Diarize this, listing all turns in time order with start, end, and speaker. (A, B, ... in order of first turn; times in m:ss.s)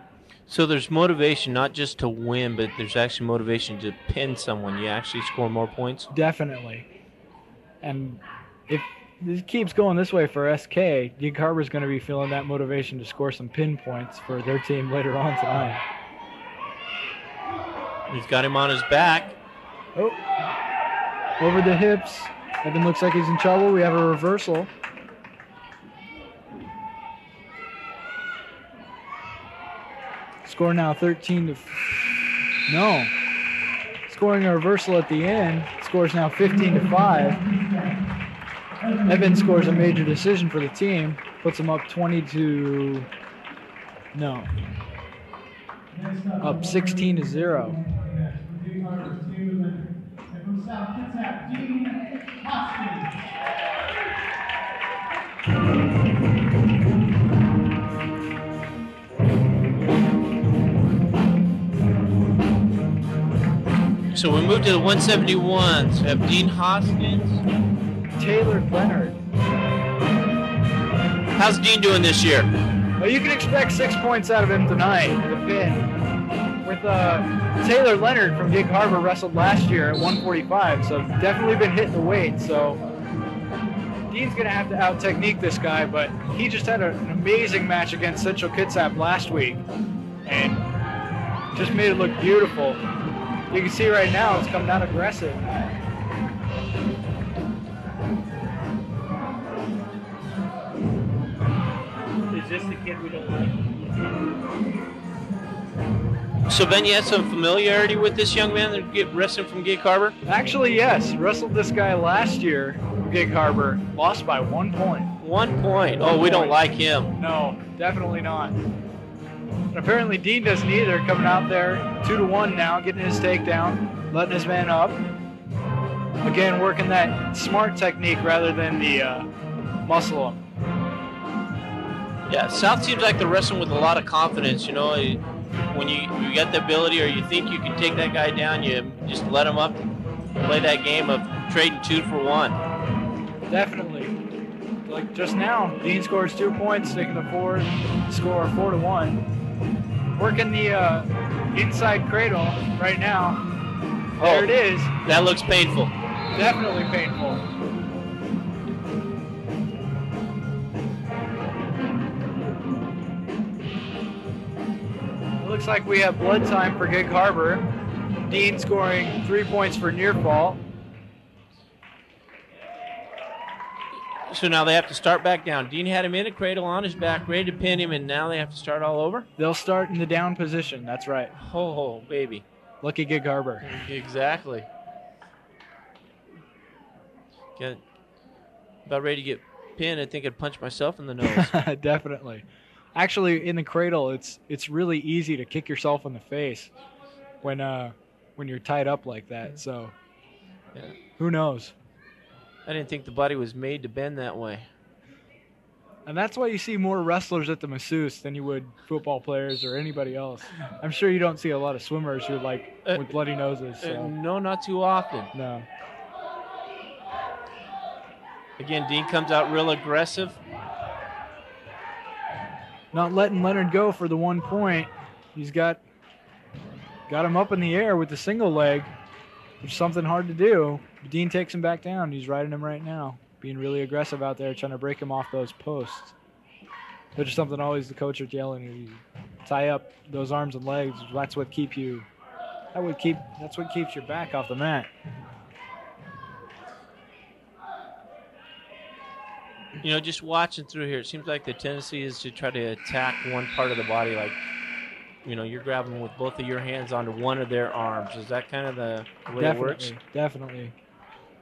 0:00.5-0:06.1 A
0:06.1-0:06.9 B
0:07.8-0:15.8 B
0:18.1-0:19.4 A
0:20.0-0:20.2 B
0:21.4-0:24.7 B
0:30.4-0:31.8 B
0:32.7-0:33.1 B
0:34.1-0:37.4 B
0:36.5-0:38.0 C
0:38.8-0:40.0 C
0:39.1-0:43.1 B
0:44.1-0:44.5 B
0:45.9-0:53.3 C
0:46.4-0:47.8 B
1:04.1-1:07.4 A
1:08.2-1:09.2 B
1:11.4-1:12.5 A
1:13.0-1:15.9 B
1:16.6-1:22.8 B
1:24.1-1:29.6 B
1:30.2-1:30.7 B
1:31.5-1:32.8 B
1:33.5-1:35.4 B
1:42.3-1:43.5 C
1:46.5-1:50.2 A
1:50.2-1:55.1 B
1:55.2-1:57.1 A
1:56.0-1:58.6 B
1:59.7-2:05.0 B
2:06.2-2:09.3 B
2:09.8-2:10.4 B
2:12.3-2:19.8 A
2:20.4-2:22.6 A
2:23.5-2:24.2 B
2:24.9-2:29.2 B
2:30.1-2:33.4 B
2:34.2-2:34.5 A
2:34.2-2:34.9 B
2:35.0-2:35.9 A
2:36.3-2:37.4 B
2:45.4-2:47.6 B
2:48.3-2:50.6 B
2:54.3-2:59.3 A
2:59.4-3:01.4 B
3:01.4-3:02.4 A
3:02.8-3:03.7 B
3:03.6-3:04.7 A
3:07.6-3:07.8 A
3:08.9-3:11.5 A
3:11.2-3:16.7 B
3:17.4-3:20.0 B
3:21.2-3:21.7 B
3:22.7-3:24.7 A
3:26.1-3:34.1 B
3:33.8-3:35.3 A
3:35.3-3:35.7 B
3:38.6-3:40.4 A
3:42.9-3:45.8 B
3:47.1-3:48.9 B
3:49.6-3:56.2 B
3:57.2-4:02.1 B
4:02.7-4:04.9 B
4:09.8-4:14.4 A
4:15.2-4:20.0 A
4:19.4-4:20.8 B